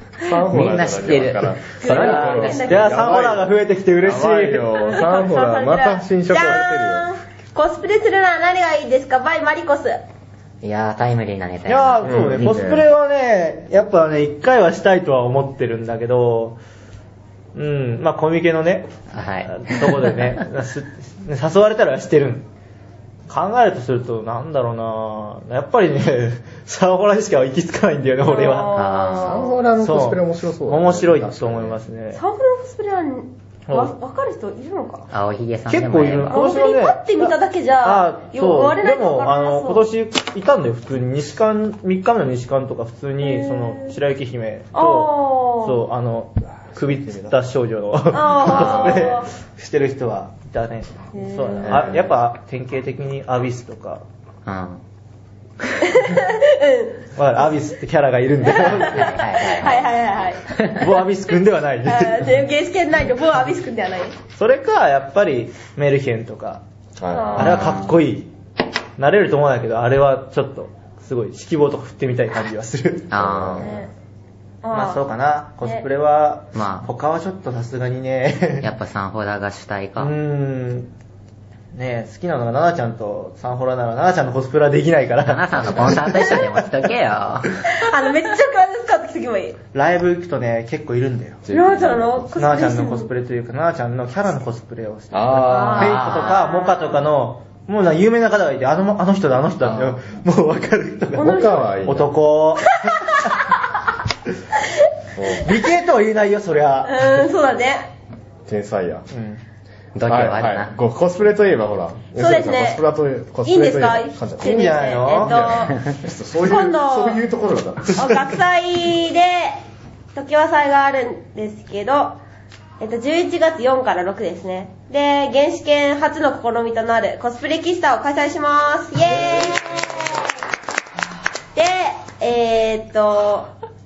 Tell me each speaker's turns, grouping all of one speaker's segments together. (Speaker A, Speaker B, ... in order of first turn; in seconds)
Speaker A: 0.2-3.5, 4.0-7.1, 12.1-12.8, 29.2-31.8, 48.5-49.1, 51.6-52.0, 67.0-67.5, 73.1-73.9, 91.5-92.3, 95.1-96.0, 101.2-102.1, 105.2-105.5, 108.5-109.1, 110.1-118.1
Speaker B: 0.5-2.8, 10.6-12.6, 19.1-20.2, 28.7-29.5, 35.1-36.5, 54.5-54.8, 58.8-59.9, 60.5-60.8, 67.4-68.0, 73.1-73.8, 76.5-76.9, 78.6-80.1, 85.2-87.6, 95.5-96.4, 99.7-100.0, 110.0-110.7
Speaker C: 1.8-3.2, 4.8-10.0, 28.2-29.6, 32.1-35.1, 36.3-39.9, 43.2-43.9, 44.7-45.8, 48.1-49.3, 51.1-51.8, 55.8-57.1, 58.5-60.5, 61.9-64.2, 67.1-67.7, 73.6-73.9, 74.6-75.0, 87.7-89.6, 91.5-93.1, 95.5-97.0, 101.2-101.7, 102.9-103.5, 106.8-107.9, 112.2-112.8, 113.5-117.2, 118.0-119.6, 120.1-122.2, 122.8-130.2, 131.6-133.5
Speaker D: 2.5-4.8, 11.7-16.6, 17.6-18.9, 19.5-22.5, 23.3-28.7, 29.8-32.2, 35.7-54.0, 57.1-59.2, 60.8-62.3, 64.3-66.6, 67.4-68.3, 69.0-73.1, 74.7-78.7, 80.0-80.9, 81.7-86.7, 89.7-91.5, 92.4-103.2, 105.3-107.2, 109.1-109.4, 114.4-115.4